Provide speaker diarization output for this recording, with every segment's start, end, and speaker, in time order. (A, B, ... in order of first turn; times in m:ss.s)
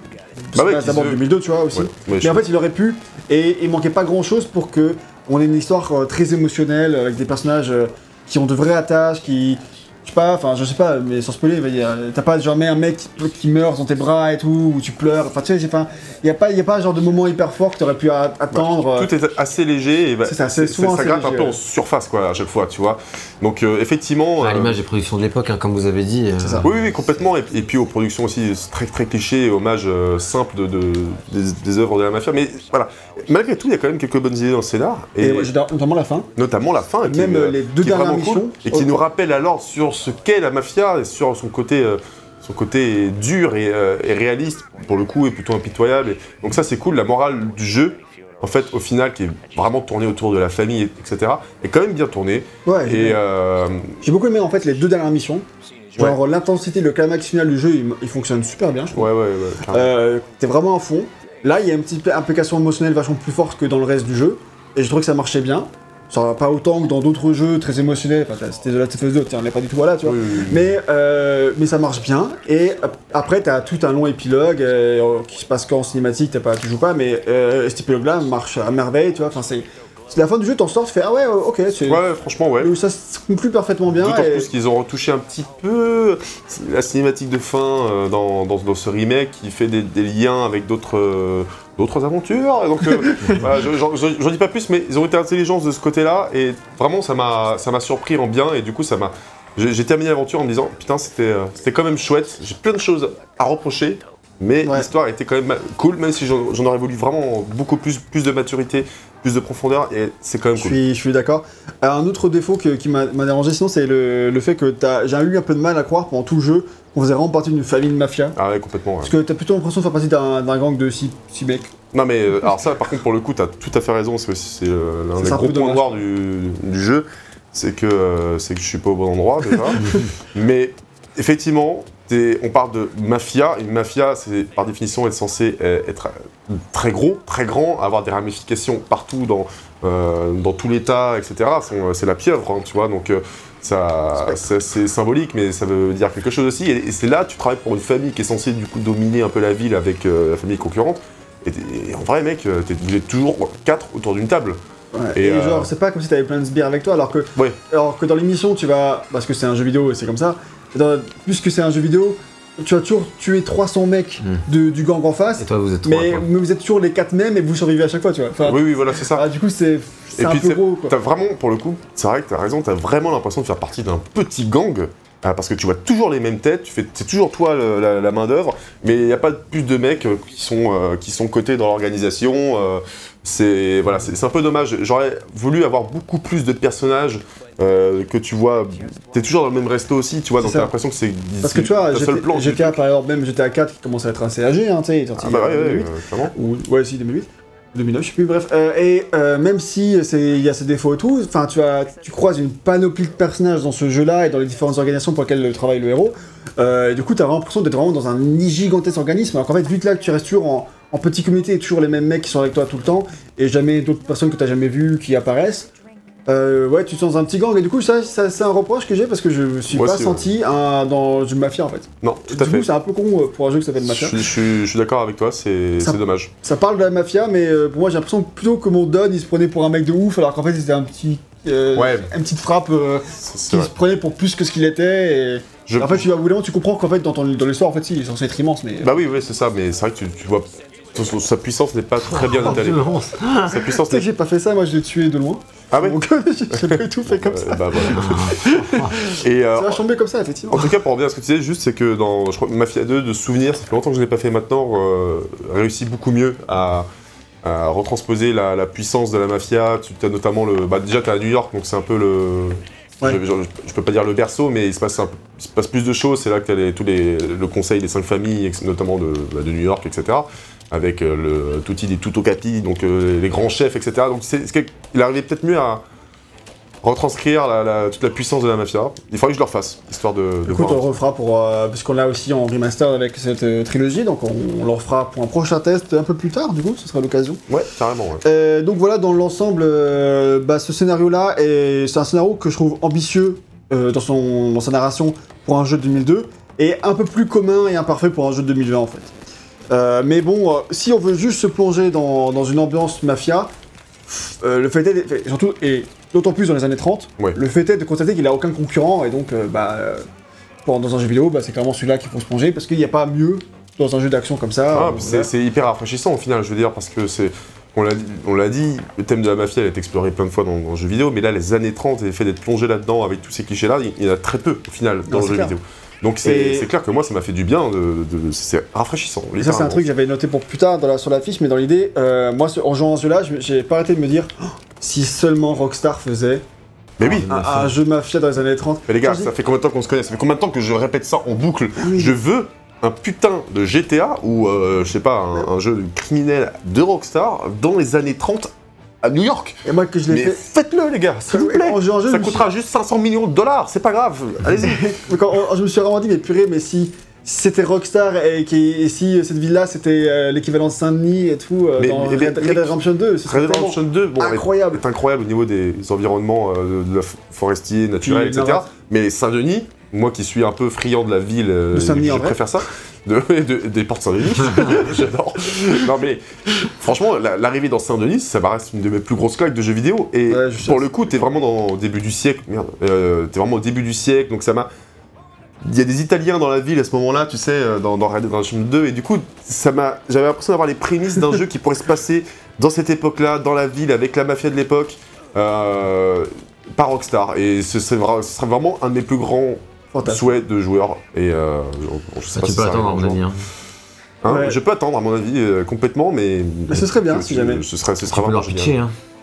0:00.4-0:19.1 A
0:00.6-0:02.4 B
0:18.5-0:24.8 B
0:20.2-0:21.6 A
0:24.4-0:26.8 C
0:26.4-0:26.7 A
0:26.6-0:35.5 B
0:35.2-0:36.3 A
0:36.4-0:54.0 B
0:37.0-0:39.0 A
0:52.6-0:53.2 A
0:54.0-0:59.1 A
0:58.9-0:59.9 B
0:59.7-1:22.0 A
1:10.0-1:10.7 B
1:21.9-1:22.8 B
1:22.6-1:24.5 A
1:23.9-1:50.8 B
1:33.0-1:33.4 A
1:50.6-1:58.4 A
1:58.4-1:59.1 B
1:59.0-2:01.7 A
2:01.9-2:34.6 B
2:05.2-2:05.9 A
2:34.9-2:51.0 A
2:35.2-2:35.7 B
2:45.4-2:46.3 C
2:48.4-2:49.3 B
2:50.2-3:12.8 B
3:10.4-3:10.7 A
3:11.4-3:35.7 A
3:15.2-3:16.3 B
3:36.3-3:44.3 A
3:39.7-3:40.3 B
3:42.0-3:42.7 B
3:43.8-3:46.3 B
3:45.8-3:58.9 A
3:51.8-3:52.1 B
3:53.2-3:53.7 B
3:55.7-3:56.1 B
3:58.8-4:02.9 B
4:02.1-4:03.7 C
4:03.4-4:04.1 B
4:03.7-4:10.7 A
4:05.7-4:09.8 B
4:07.9-4:08.9 C
4:10.5-4:16.9 B
4:17.4-4:35.8 B
4:36.8-4:40.8 B
4:40.5-4:47.4 A
4:47.5-4:48.2 B
4:48.2-4:59.1 A
4:59.7-5:03.5 A
5:04.1-5:10.1 A
5:10.6-5:15.3 A
5:14.7-5:29.9 B
5:25.1-5:25.6 A
5:26.2-5:26.7 A
5:29.4-5:36.4 A
5:37.0-5:37.3 B
5:37.0-5:37.8 C
5:37.1-5:39.3 A
5:38.9-5:55.0 B
5:41.8-5:42.2 A
5:49.6-5:50.4 A
5:51.3-5:52.4 A
5:54.6-6:04.8 A
6:01.8-6:24.7 B
6:08.0-6:08.7 A
6:11.7-6:12.4 A
6:20.3-6:20.9 A
6:25.6-6:43.2 B
6:39.9-6:40.3 A
6:42.4-6:43.4 C
6:44.2-6:48.8 B
6:44.3-6:44.6 A
6:46.7-6:47.6 A
6:48.1-6:48.9 C